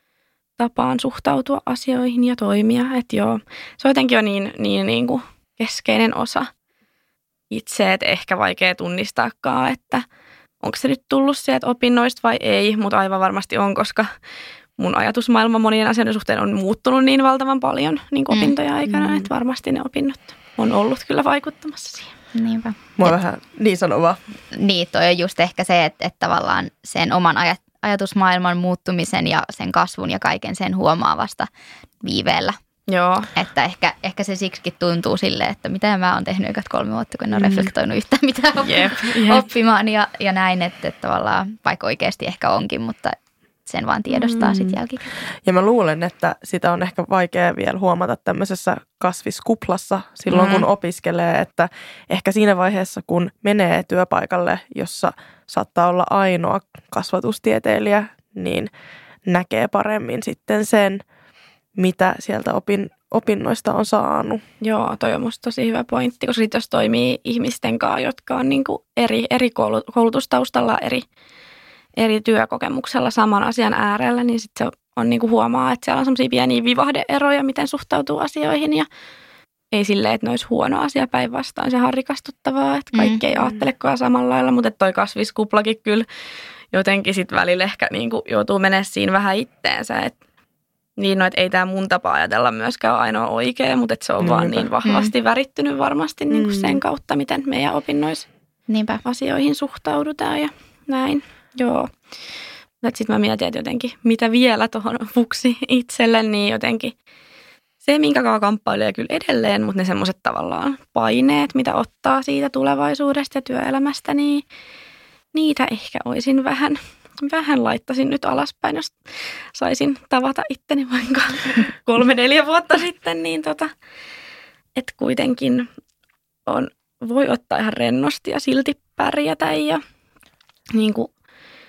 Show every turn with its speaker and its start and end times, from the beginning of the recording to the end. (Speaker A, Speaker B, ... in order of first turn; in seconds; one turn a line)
Speaker A: 0.6-6.5
Speaker A: 7.5-10.0
Speaker A: 10.6-14.1
Speaker A: 14.8-22.1
Speaker B: 18.9-19.3
Speaker C: 22.3-23.2
Speaker B: 23.0-24.2
Speaker C: 24.5-31.5
Speaker C: 32.0-32.6
Speaker A: 32.9-33.3
Speaker C: 33.3-45.2
Speaker B: 37.3-37.7
Speaker A: 38.6-39.5
Speaker A: 44.1-44.4
Speaker B: 44.4-44.8
Speaker B: 45.4-58.7
Speaker C: 50.3-50.6
Speaker B: 59.2-61.0
Speaker B: 61.8-64.4
Speaker A: 64.6-71.0
Speaker A: 72.0-78.9
Speaker A: 79.7-86.0
Speaker C: 82.9-83.2
Speaker A: 86.7-90.2
Speaker A: 91.0-98.3
Speaker B: 94.2-94.7
Speaker C: 94.8-95.1
Speaker B: 96.3-96.8
Speaker C: 98.7-99.0
Speaker A: 99.0-101.9
Speaker A: 102.8-106.9
Speaker A: 107.8-114.4
Speaker A: 115.3-119.0
Speaker A: 119.5-123.7
Speaker A: 124.8-125.7
Speaker A: 126.5-129.8
Speaker A: 130.7-131.1